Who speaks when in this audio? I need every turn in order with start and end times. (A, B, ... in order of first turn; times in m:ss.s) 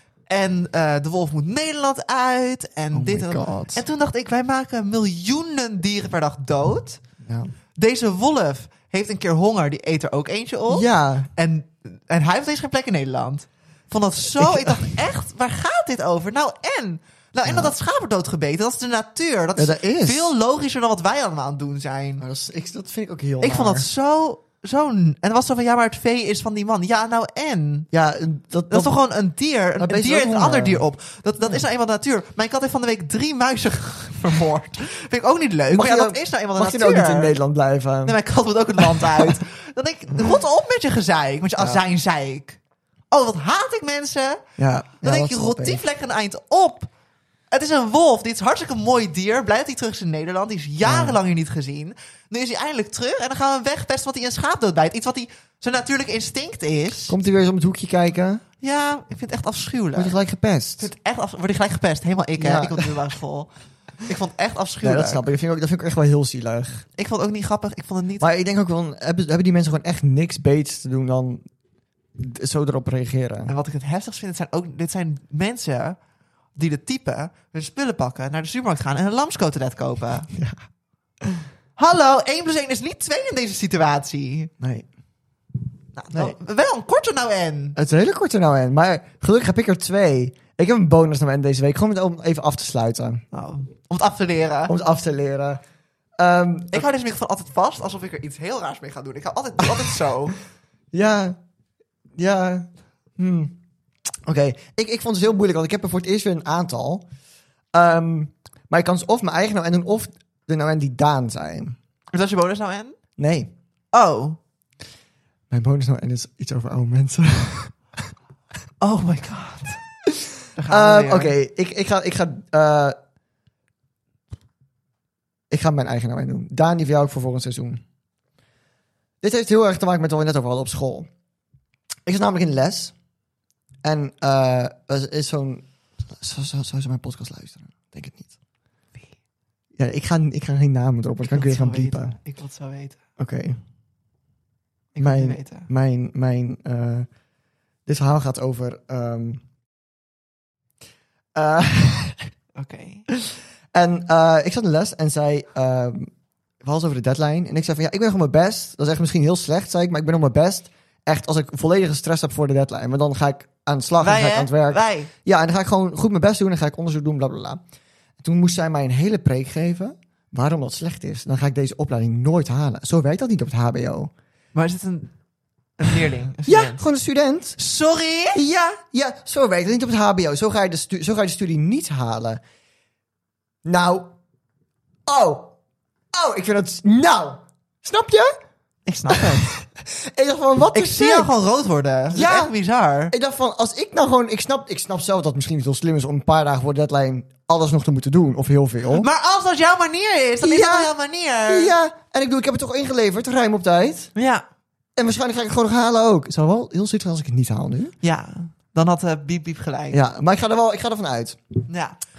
0:00.3-0:07.0 A
0:02.9-0:03.8 B
0:07.2-0:07.5 B
0:07.8-0:22.2 A
0:10.7-0:11.3 B
0:14.3-0:14.9 B
0:17.4-0:17.7 B
0:19.6-0:20.3 B
0:22.2-0:23.8 B
0:23.4-0:27.9 A
0:27.9-0:28.9 B
0:28.7-0:37.4 A
0:29.8-0:30.8 B
0:35.7-0:38.2 B
0:38.0-0:42.6 A
0:38.8-0:39.4 B
0:41.6-0:41.8 B
0:43.1-0:44.4 A
0:44.6-0:45.8 B
0:45.0-0:46.9 A
0:47.5-0:57.2 A
0:50.8-0:51.2 B
0:57.1-0:58.4 B
0:58.6-1:00.2 A
1:00.0-1:00.9 B
1:00.8-1:05.2 A
1:02.4-1:02.9 B
1:04.8-1:06.8 B
1:07.0-1:08.3 A
1:08.2-1:11.4 B
1:12.2-1:13.5 B
1:13.5-1:16.0 A
1:16.6-1:20.3 A
1:20.3-1:20.6 B
1:21.8-1:24.5 A
1:24.6-1:24.8 B
1:26.0-1:27.8 A
1:27.8-1:33.2 B
1:33.3-1:34.7 A
1:34.7-1:35.6 B
1:36.2-1:36.9 B
1:36.7-1:40.4 A
1:40.9-1:41.4 B
1:42.2-1:43.6 B
1:44.2-1:47.0 B
1:47.7-1:51.8 B
1:52.1-1:53.0 A
1:53.2-1:53.5 B
1:53.9-1:54.4 A
1:55.5-1:58.1 B
1:58.8-1:59.8 A
2:00.6-2:01.3 A
2:00.7-2:03.0 B
2:05.5-2:07.8 B
2:09.2-2:11.1 B
2:12.0-2:12.9 B
2:13.8-2:18.3 B
2:19.8-2:22.2 B
2:21.3-2:23.0 A
2:23.2-2:23.6 B
2:24.9-2:25.7 A
2:25.0-2:27.1 B
2:27.8-2:29.4 B
2:31.3-2:32.3 B
2:32.6-2:33.1 A
2:33.7-2:36.1 B
2:36.6-2:47.6 B
2:44.0-2:45.1 A
2:48.2-2:54.1 B
2:54.5-2:55.1 A
2:55.8-2:56.8 A
2:56.4-2:57.6 B
2:57.6-2:58.4 A
2:58.3-3:02.4 B
3:03.6-3:04.1 B
3:05.0-3:05.5 B
3:06.1-3:08.3 B
3:08.8-3:09.5 A
3:09.1-3:11.3 B
3:10.7-3:13.1 A
3:12.1-3:12.5 B
3:13.1-3:19.1 B
3:18.9-3:21.7 A
3:20.4-3:20.9 B
3:21.5-3:24.1 B
3:24.1-3:24.4 A
3:25.0-3:27.9 B
3:28.0-3:30.0 A
3:29.9-3:31.4 B
3:31.7-3:32.0 A